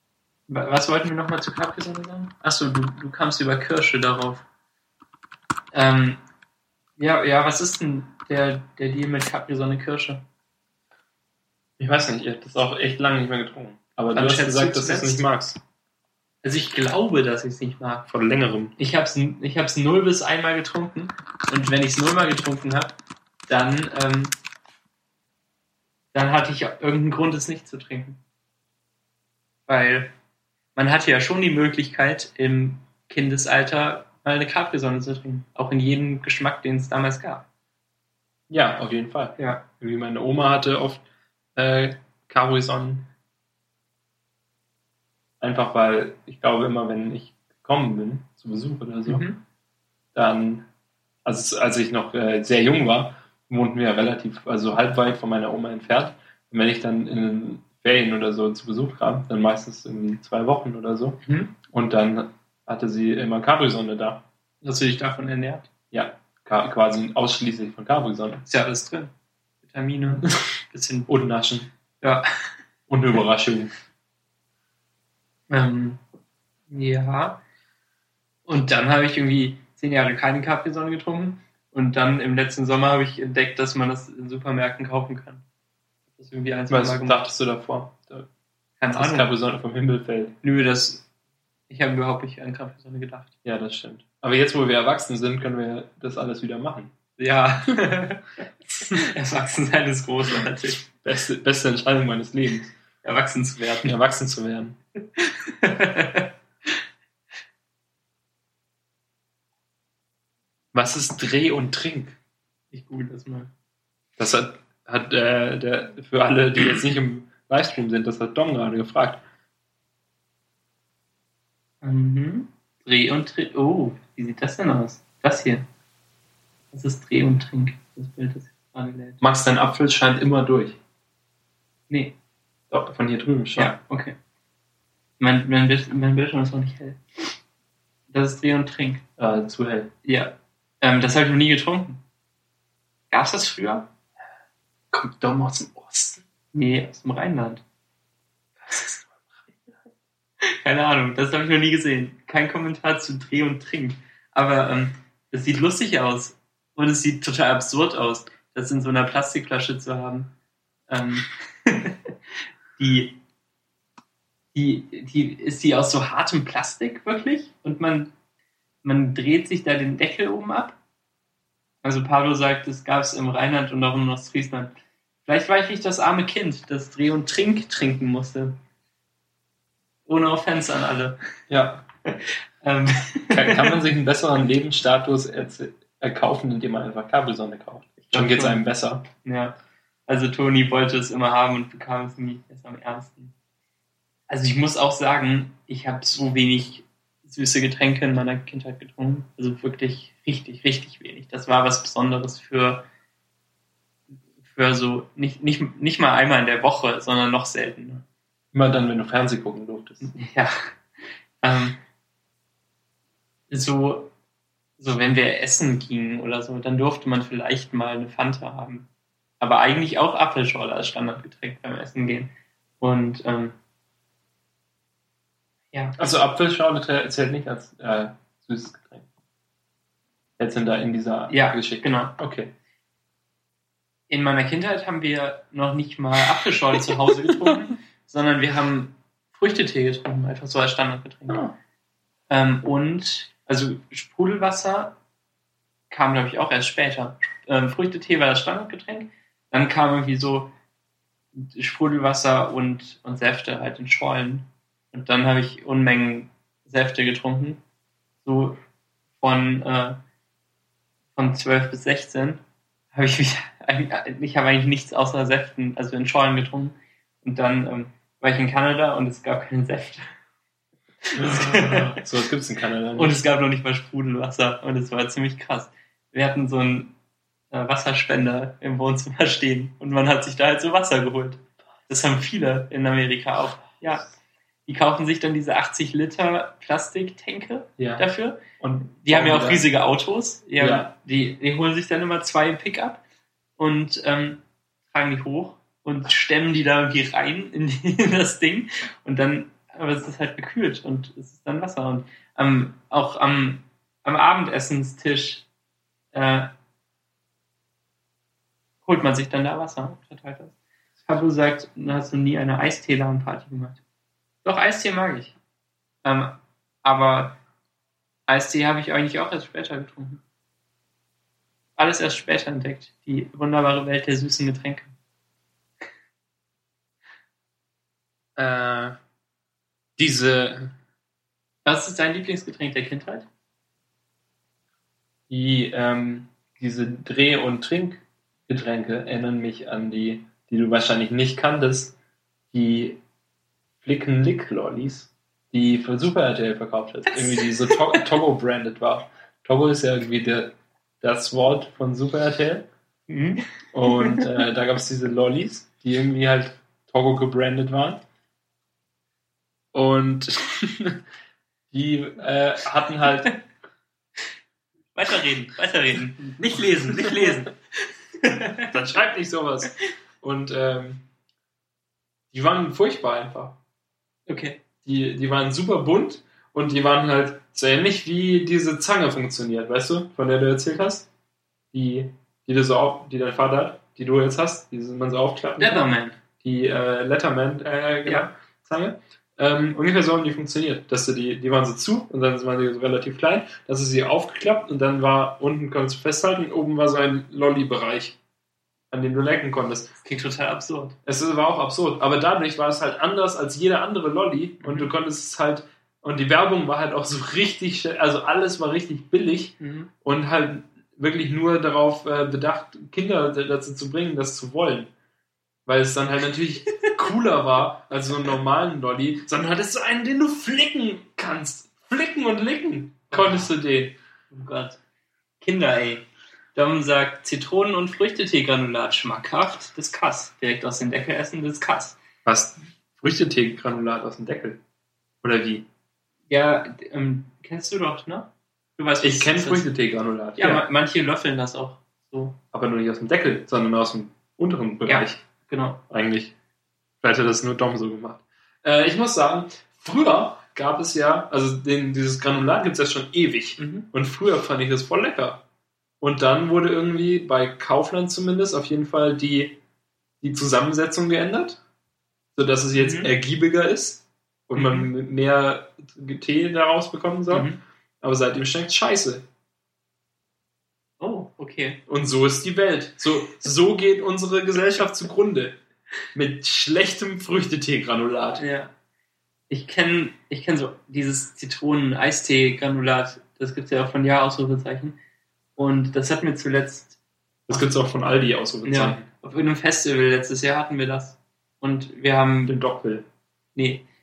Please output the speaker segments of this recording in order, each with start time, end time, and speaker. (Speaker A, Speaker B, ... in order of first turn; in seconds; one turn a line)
Speaker A: 0.5-4.5
Speaker A: 5.7-6.2
Speaker A: 7.0-10.2
Speaker B: 11.8-15.6
Speaker A: 14.1-15.2
Speaker A: 16.4-18.1
Speaker B: 18.1-18.7
Speaker A: 18.8-22.9
Speaker A: 23.5-24.3
Speaker A: 26.1-28.2
Speaker A: 29.7-30.1
Speaker A: 30.8-37.5
Speaker B: 38.5-41.0
Speaker A: 39.4-39.6
Speaker B: 41.6-43.1
Speaker B: 45.4-49.3
Speaker A: 49.1-49.4
Speaker B: 50.1-50.7
Speaker B: 51.2-64.2
Speaker A: 61.2-61.5
Speaker A: 64.6-65.7
Speaker B: 65.9-68.4
Speaker A: 68.5-69.1
Speaker A: 69.6-71.1
Speaker B: 71.1-71.7
Speaker B: 72.9-73.7
Speaker A: 75.5-76.0
Speaker A: 76.7-77.4
Speaker A: 78.5-85.4
Speaker A: 86.2-87.3
Speaker B: 86.7-88.3
Speaker A: 88.8-89.3
Speaker B: 88.9-90.4
Speaker A: 90.4-91.1
Speaker A: 91.7-93.3
Speaker B: 93.4-96.9
Speaker A: 97.2-98.3
Speaker A: 98.8-100.8
Speaker B: 100.8-102.8
Speaker A: 103.0-104.0
Speaker B: 103.8-104.8
Speaker A: 105.2-106.8
Speaker B: 110.7-112.2
Speaker A: 112.7-113.5
Speaker B: 114.2-119.2
Speaker A: 121.8-125.7
Speaker A: 126.7-129.2
Speaker B: 129.2-130.8
Speaker A: 131.9-132.2
Speaker B: 132.7-133.8
Speaker A: 133.6-134.2
Speaker A: 135.2-137.4
Speaker A: 138.1-139.0
Speaker B: 139.2-139.9
Speaker A: 140.1-142.0
Speaker A: 143.1-143.9
Speaker B: 144.9-146.2
Speaker A: 146.5-147.6
Speaker B: 148.7-149.4
Speaker A: 150.4-160.3
Speaker A: 160.9-162.1
Speaker A: 162.8-163.2
Speaker A: 164.5-168.1
Speaker A: 168.8-170.8
Speaker A: 171.8-174.8
Speaker A: 175.2-178.6
Speaker A: 180.1-181.2
Speaker B: 181.5-181.8
Speaker A: 182.1-183.8
Speaker B: 183.3-189.1
Speaker A: 188.1-189.5
Speaker A: 190.1-193.3
Speaker A: 194.3-202.8
Speaker A: 204.4-208.0
Speaker B: 208.5-210.2
Speaker A: 210.0-210.7
Speaker A: 211.4-211.8
Speaker A: 213.5-214.1
Speaker A: 214.8-218.9
Speaker A: 219.4-223.6
Speaker B: 226.0-229.1
Speaker B: 230.4-232.5
Speaker A: 231.3-232.2
Speaker A: 234.1-241.4
Speaker B: 241.3-241.5
Speaker A: 242.3-245.0
Speaker A: 245.9-250.5
Speaker A: 251.3-257.6
Speaker A: 258.2-258.6
Speaker A: 259.2-260.0
Speaker A: 261.2-262.4
Speaker A: 262.9-270.1
Speaker A: 271.0-272.1
Speaker B: 271.1-273.2
Speaker A: 272.9-276.9
Speaker A: 277.5-284.1
Speaker A: 284.7-288.4
Speaker B: 287.8-288.1
Speaker B: 288.6-289.7
Speaker A: 289.0-293.0
Speaker B: 290.6-290.9
Speaker A: 293.6-305.5
Speaker A: 306.1-306.5
Speaker A: 308.9-313.8
Speaker A: 314.4-315.4
Speaker A: 316.0-317.4
Speaker A: 318.3-320.2
Speaker A: 321.8-324.9
Speaker B: 328.4-329.0
Speaker B: 330.0-330.7
Speaker A: 331.6-333.3
Speaker B: 335.3-341.9
Speaker B: 342.5-343.0
Speaker B: 343.8-352.7
Speaker A: 347.1-348.1
Speaker A: 353.1-354.3
Speaker B: 353.7-358.0
Speaker B: 359.7-361.0
Speaker B: 361.7-363.4
Speaker A: 364.9-368.7
Speaker B: 366.8-367.1
Speaker B: 368.6-371.1
Speaker B: 372.3-373.6
Speaker A: 374.3-374.6
Speaker B: 374.8-381.1
Speaker B: 381.7-398.2
Speaker A: 385.6-386.2
Speaker B: 398.9-399.9
Speaker A: 400.0-401.0
Speaker B: 401.1-414.9
Speaker A: 404.6-404.9
Speaker A: 409.6-409.9
Speaker B: 415.7-424.0
Speaker A: 423.1-423.5
Speaker A: 424.3-424.8
Speaker A: 425.4-432.0
Speaker B: 432.2-434.6
Speaker B: 435.2-435.7
Speaker A: 436.3-439.7
Speaker B: 439.0-440.7
Speaker A: 440.4-442.4
Speaker B: 442.5-445.2
Speaker A: 444.9-445.8
Speaker B: 445.9-446.3
Speaker B: 447.0-455.4
Speaker A: 453.6-453.9
Speaker B: 456.0-459.6
Speaker B: 460.2-461.6
Speaker B: 462.4-467.5
Speaker A: 462.8-463.1
Speaker A: 464.6-464.9
Speaker A: 467.3-467.6
Speaker B: 468.0-469.2
Speaker A: 471.0-471.8
Speaker B: 471.9-475.6
Speaker B: 476.1-478.4
Speaker A: 478.4-478.7
Speaker A: 479.5-485.0
Speaker A: 485.6-487.0
Speaker B: 487.5-489.1
Speaker A: 488.6-492.6
Speaker B: 492.5-493.1
Speaker A: 493.6-493.9